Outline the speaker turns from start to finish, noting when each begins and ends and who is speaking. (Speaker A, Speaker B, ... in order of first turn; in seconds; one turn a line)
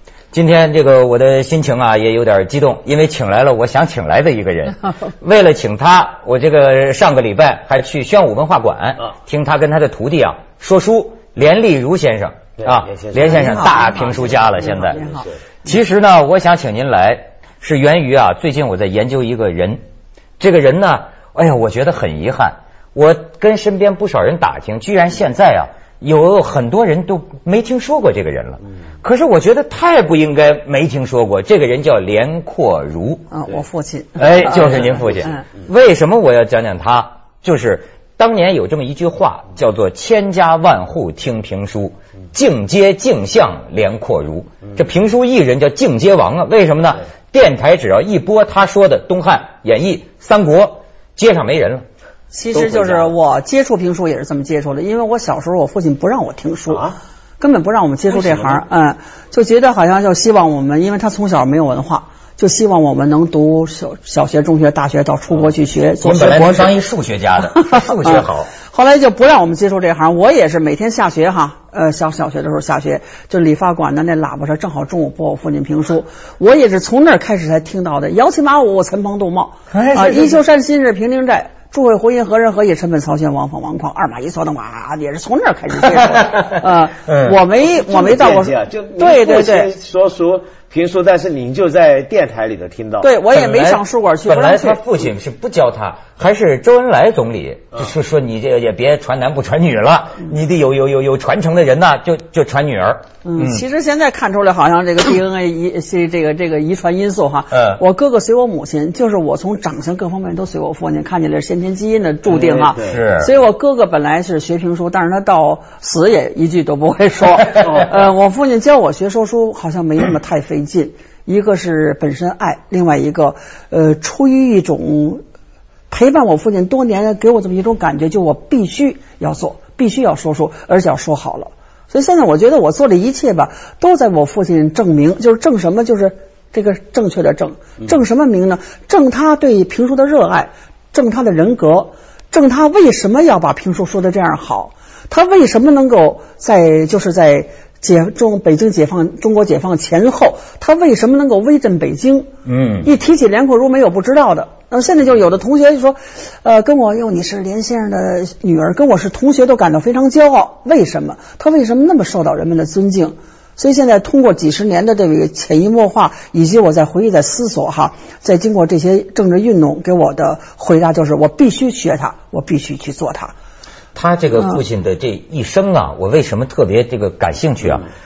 Speaker A: 0.3-15.1
Speaker B: 12.6-14.0
Speaker C: 13.2-15.3
Speaker B: 14.9-15.2
Speaker A: 15.7-19.8
Speaker A: 20.4-33.3
Speaker C: 33.3-35.4
Speaker A: 34.2-51.8
Speaker C: 52.3-66.7
Speaker B: 52.5-53.1
Speaker B: 58.2-58.6
Speaker A: 66.0-68.5
Speaker C: 67.5-89.7
Speaker A: 79.7-80.4
Speaker A: 87.1-87.3
Speaker B: 87.7-93.1
Speaker C: 93.0-94.8
Speaker A: 93.3-103.6
Speaker C: 103.2-125.2
Speaker A: 107.5-107.8
Speaker B: 112.3-113.0
Speaker A: 112.8-113.3
Speaker C: 125.9-152.3
Speaker A: 152.5-152.9
Speaker C: 152.8-173.3
Speaker A: 173.9-177.9